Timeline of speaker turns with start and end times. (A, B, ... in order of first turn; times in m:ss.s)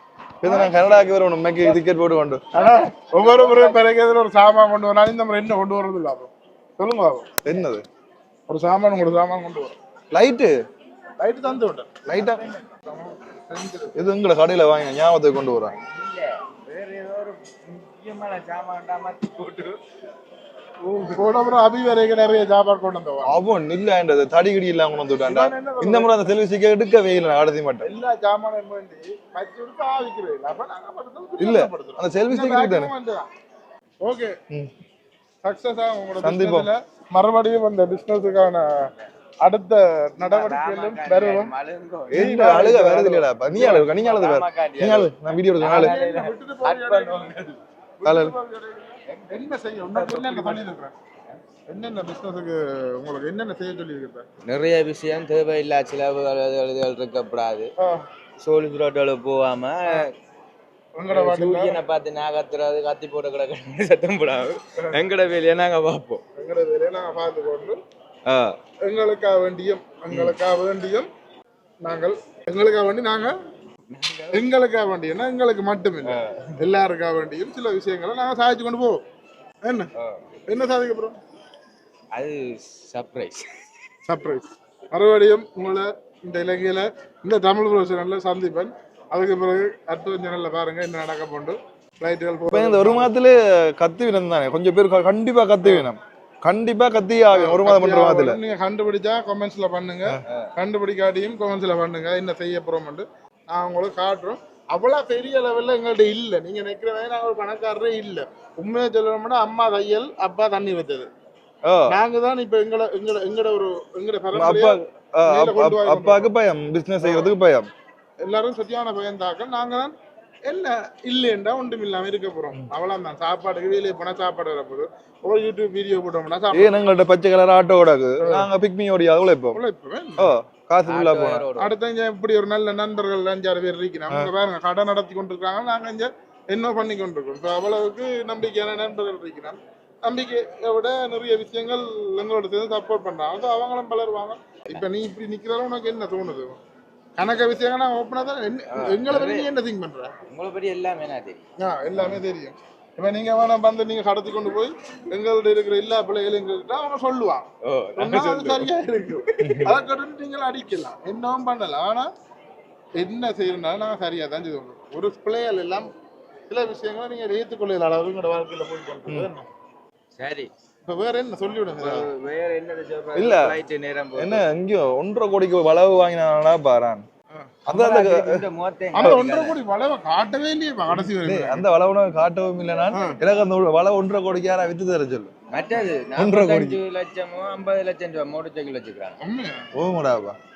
0:00.4-0:02.5 A
0:00.5-0:01.1 B
0:02.5-0:03.8 B
0:02.5-0:07.3 C
0:07.4-0:07.8 A
0:08.5-0:09.8 C
0:10.1-0:10.5 A
0:11.2-0:11.9 C
0:12.1-0:12.4 A
0:12.8-0:14.0 C
0:14.0-0:15.7 A
0:15.5-0:19.8 B
0:20.8-0:23.4 C
0:23.2-0:27.9 A
0:25.3-0:26.3 C
0:27.8-0:33.3 C
0:31.4-0:32.9 A
0:34.0-0:34.4 C
0:35.4-0:38.9 C
0:36.2-0:36.7 A
0:38.8-0:39.1 B
0:39.4-0:41.5 C
0:40.2-0:42.5 B
0:42.1-0:46.0 A
0:42.1-0:43.7 C
0:43.6-0:47.6 B
0:45.6-0:50.9 C
0:48.0-0:48.3 A
0:49.1-0:50.7 B
0:51.7-0:54.2 C
0:54.4-0:57.7 B
0:57.8-0:58.0 C
0:58.4-1:00.1 B
1:01.0-1:01.8 C
1:01.1-1:06.2 B
1:06.4-1:07.8 C
1:08.3-1:08.6 B
1:08.8-1:11.1 C
1:11.8-1:13.4 C
1:13.9-1:14.4 B
1:14.3-1:19.0 C
1:16.1-1:16.4 B
1:19.6-1:19.9 C
1:20.5-1:21.2 C
1:22.1-1:23.5 B
1:24.1-1:33.1 C
1:32.5-1:38.4 A
1:35.6-1:35.9 C
1:37.3-1:51.1 C
1:40.1-1:40.5 A
1:51.6-1:51.9 A
1:51.9-1:56.3 C
1:54.3-1:57.7 A
1:57.0-1:57.3 C
1:58.2-2:00.0 C
2:00.5-2:06.8 C
2:06.5-2:09.6 A
2:08.2-2:08.5 C
2:09.5-2:10.3 C
2:10.2-2:11.5 A
2:10.9-2:11.7 B
2:11.6-2:26.6 C
2:27.2-2:30.1 C
2:28.7-2:29.5 B
2:30.3-2:31.5 B
2:31.6-2:37.5 C
2:37.6-2:38.7 B
2:38.0-2:42.1 C
2:39.3-2:39.7 B
2:39.4-2:39.8 A
2:43.0-2:45.9 C
2:46.5-2:49.5 C
2:50.2-2:50.5 B
2:50.8-2:52.1 C
2:51.8-2:54.4 B
2:53.2-2:53.6 A
2:54.2-2:57.0 A
2:57.7-2:58.4 A
2:57.7-2:59.6 B
2:58.9-3:01.7 C
3:00.9-3:05.3 A
3:02.9-3:03.2 C
3:05.5-3:09.2 B
3:06.2-3:06.8 A
3:09.2-3:09.7 C
3:09.7-3:10.4 A